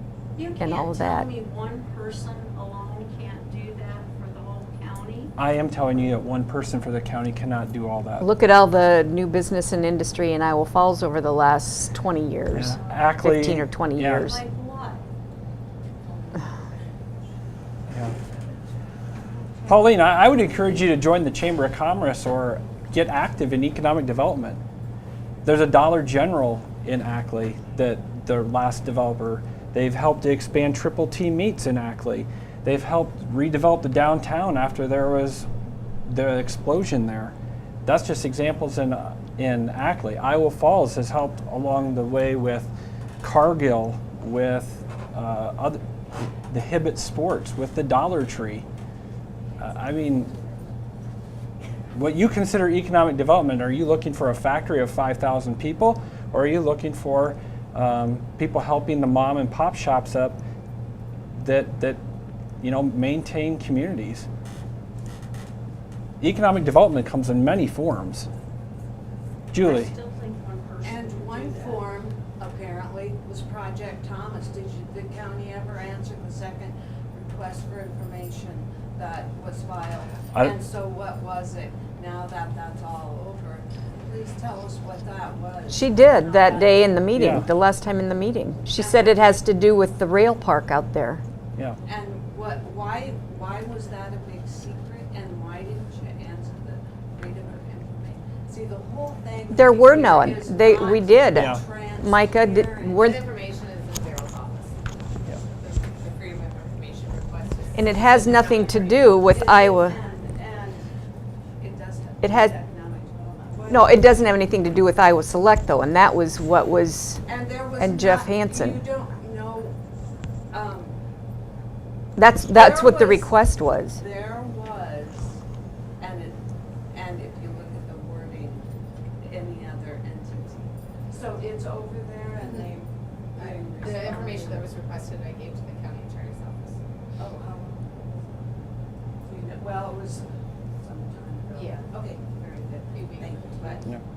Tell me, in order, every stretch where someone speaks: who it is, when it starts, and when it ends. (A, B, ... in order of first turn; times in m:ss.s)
0:00.4-0:05.3 A
0:00.6-0:01.3 B
0:05.4-0:08.3 C
0:08.2-0:14.4 B
0:12.5-0:14.4 C
0:14.2-0:15.0 A
0:16.1-0:17.1 D
0:19.6-0:24.6 C
0:25.4-0:35.5 C
0:36.0-0:45.8 C
0:46.5-0:48.6 C
0:49.6-0:50.3 C
0:51.9-1:00.4 C
1:01.3-1:02.0 C
1:02.6-1:04.3 C
1:06.2-1:08.3 C
1:09.5-1:09.9 C
1:09.5-1:11.9 A
1:10.8-1:27.0 E
1:25.7-1:31.2 B
1:27.1-1:27.5 C
1:28.7-1:29.2 E
1:31.8-1:43.0 E
1:39.5-1:43.3 B
1:41.3-1:41.6 C
1:43.0-1:48.9 D
1:47.7-1:50.0 B
1:48.3-1:50.9 E
1:51.6-1:54.0 E
1:52.2-1:52.5 B
1:53.7-1:57.2 B
1:57.2-1:59.8 E
1:57.8-1:58.8 B
2:00.5-2:00.9 E
2:02.2-2:04.0 B
2:02.5-2:03.4 E
2:04.0-2:05.4 E
2:06.0-2:08.6 E
2:09.2-2:14.7 E
2:13.4-2:16.8 D
2:17.2-2:18.4 E
2:19.2-2:23.8 E
2:21.5-2:21.9 D
2:22.9-2:23.8 D